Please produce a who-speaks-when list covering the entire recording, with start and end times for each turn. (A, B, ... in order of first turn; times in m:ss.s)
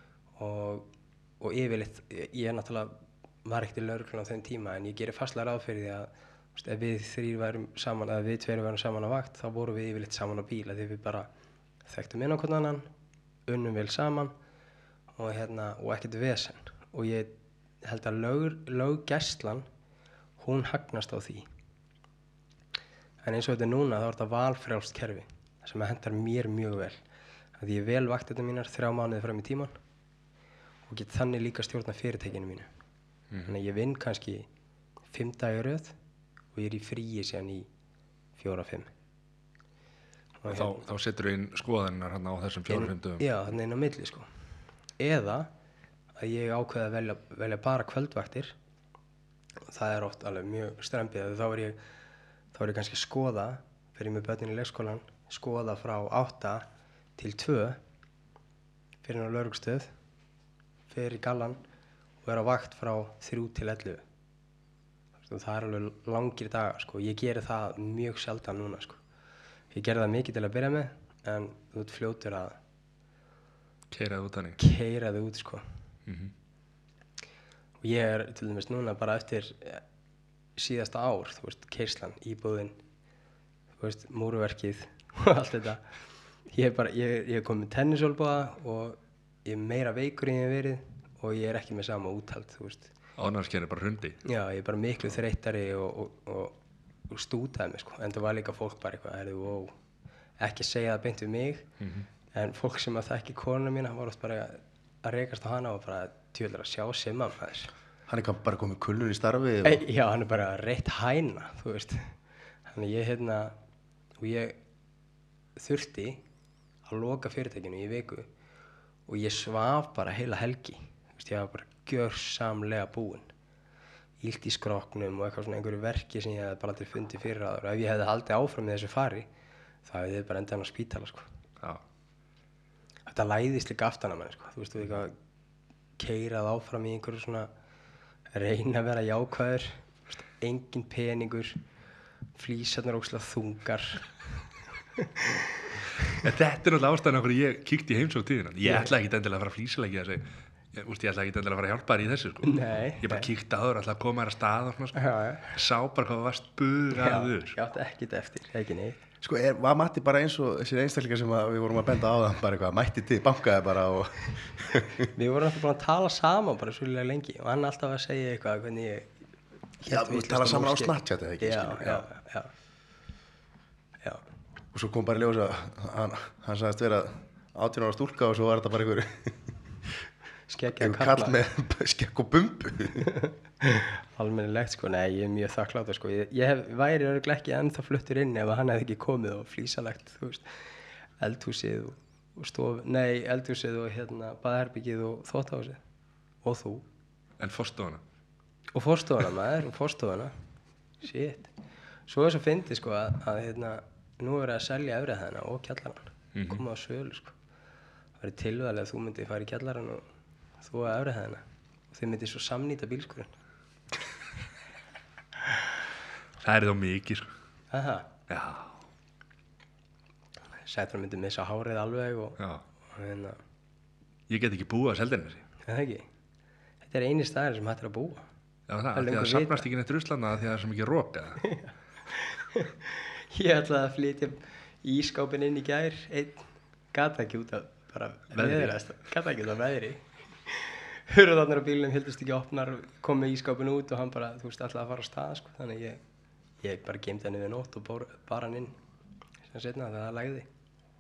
0:00.4-0:00.9 A
0:01.4-0:02.9 A
0:03.4-0:11.3 A
0:11.9-0:12.9 A
0:13.5-0:14.3 A
0:15.2-0:17.3 A
0:17.8-0:19.7 A
0:20.4-0:21.5 A
0:23.2-0:27.0 A
0:27.6-0:29.8 A
0:30.9-0:32.7 A
0:33.5-0:34.5 A
0:35.1-0:36.0 A
0:36.6-0:37.7 A
0:38.4-0:38.9 A
0:40.4-0:40.8 A
0:40.5-0:43.3 B
0:42.7-0:44.3 A
0:45.0-0:45.5 A
0:46.2-0:48.5 A
0:49.7-0:51.8 A
0:52.5-0:56.7 A
0:57.2-0:57.8 A
0:59.0-0:59.9 A
1:00.9-1:01.6 A
1:02.2-1:04.0 A
1:05.2-1:09.0 A
1:09.7-1:12.6 A
1:13.9-1:14.6 B
1:14.6-1:15.6 A
1:16.1-1:16.3 B
1:17.8-1:19.8 A
1:20.6-1:22.8 A
1:23.8-1:25.8 A
1:26.5-1:32.9 A
1:33.2-1:34.2 B
1:34.2-1:36.6 A
1:37.1-1:39.7 A
1:40.4-1:41.7 A
1:41.8-1:42.1 B
1:42.3-1:47.7 A
1:48.1-1:49.8 C
1:49.6-1:52.2 A
1:52.7-1:53.6 A
1:54.2-1:54.6 A
1:55.6-1:56.2 A
1:56.9-1:58.3 A
1:59.1-2:03.3 A
2:04.2-2:09.3 A
2:09.9-2:11.2 A
2:13.1-2:15.1 A
2:16.0-2:17.5 A
2:18.3-2:19.8 A
2:20.4-2:21.6 A
2:22.4-2:24.3 A
2:25.0-2:26.2 A
2:26.1-2:37.6 B
2:28.6-2:28.9 A
2:32.4-2:33.3 A
2:35.0-2:35.6 A
2:36.9-2:39.0 A
2:39.2-2:45.0 C
2:45.1-2:49.1 A
2:49.8-2:52.1 C
2:49.9-2:52.5 A
2:54.7-2:59.9 C
3:00.5-3:01.4 A
3:00.6-3:03.1 C
3:03.0-3:10.5 A
3:11.2-3:15.8 A
3:16.4-3:16.9 A
3:17.4-3:18.0 B
3:18.7-3:20.3 A
3:21.0-3:21.5 A
3:22.1-3:27.4 A
3:26.4-3:26.6 B
3:28.2-3:30.0 A
3:30.6-3:33.3 A
3:36.4-3:37.3 B
3:37.7-3:38.1 A
3:38.3-3:38.8 B
3:40.6-3:42.4 A
3:42.9-3:43.4 A
3:44.3-3:45.4 B
3:45.6-3:46.1 A
3:46.8-3:48.3 A
3:48.7-3:51.5 B
3:48.9-3:49.7 A
3:51.4-4:06.0 A
3:58.4-3:58.8 B
4:06.6-4:08.8 A
4:09.5-4:10.5 A